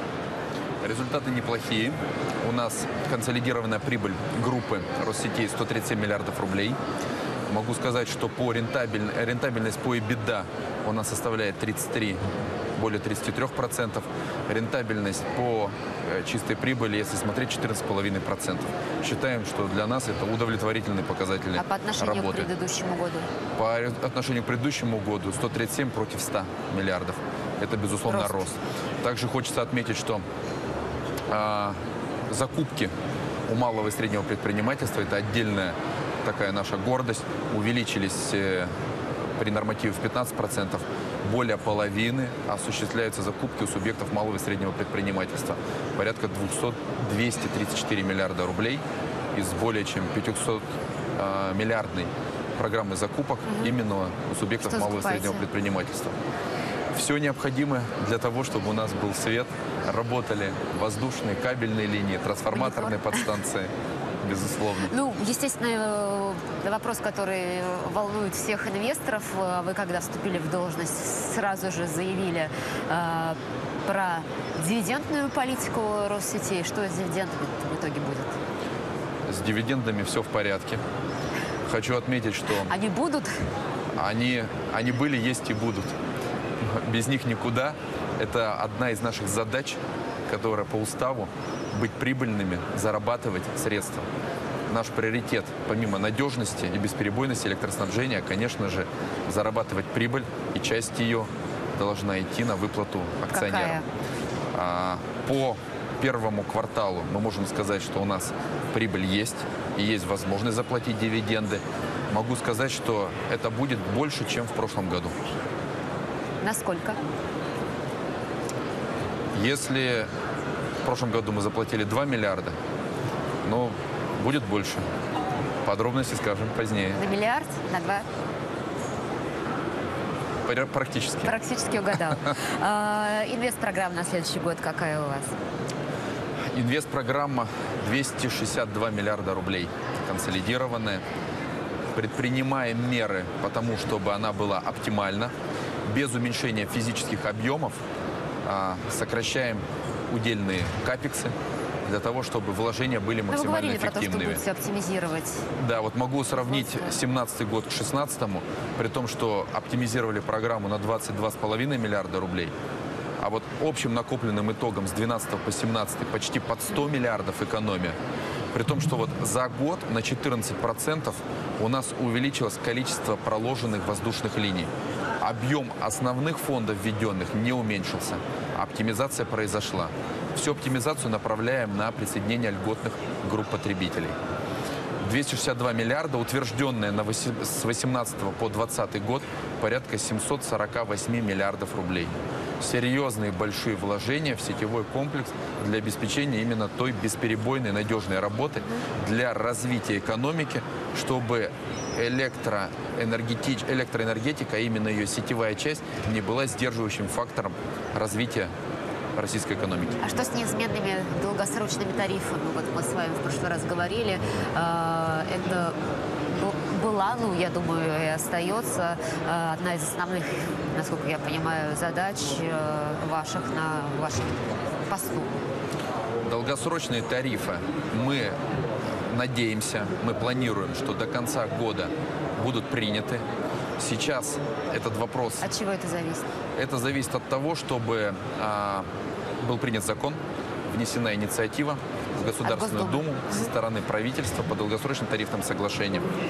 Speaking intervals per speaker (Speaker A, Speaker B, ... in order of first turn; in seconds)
Speaker A: 0.8-6.8, 7.5-12.2, 12.8-22.5, 23.5-30.2, 31.3-31.7, 32.3-32.9, 33.5-38.7, 39.4-48.8, 49.3-50.6, 51.1-56.1, 56.9-64.9, 79.2-80.8, 81.7-82.7, 84.0-85.9, 86.6-94.0, 94.7-103.8, 104.5-115.1, 119.3-120.1, 120.8-122.5, 123.4-124.8, 125.6-127.0, 130.4-131.3, 136.5-141.0, 141.9-145.3, 145.9-147.8, 148.4-151.3, 151.8-154.4, 155.6-162.5, 163.2-167.9, 168.5-174.7, 175.2-184.2, 185.0-208.5, 209.1-210.0, 226.2-228.3, 229.1-233.2, 233.8-235.4, 236.6-238.8, 239.4-240.2, 240.7-246.1
Speaker B: 21.6-23.3, 28.1-28.5, 53.5-53.7, 54.6-55.4, 62.5-63.3, 64.8-78.4, 82.6-83.3, 103.3-103.8, 116.4-117.0, 127.0-128.1, 131.2-135.3, 153.3-155.4, 210.0-225.3, 235.4-236.2, 242.4-243.4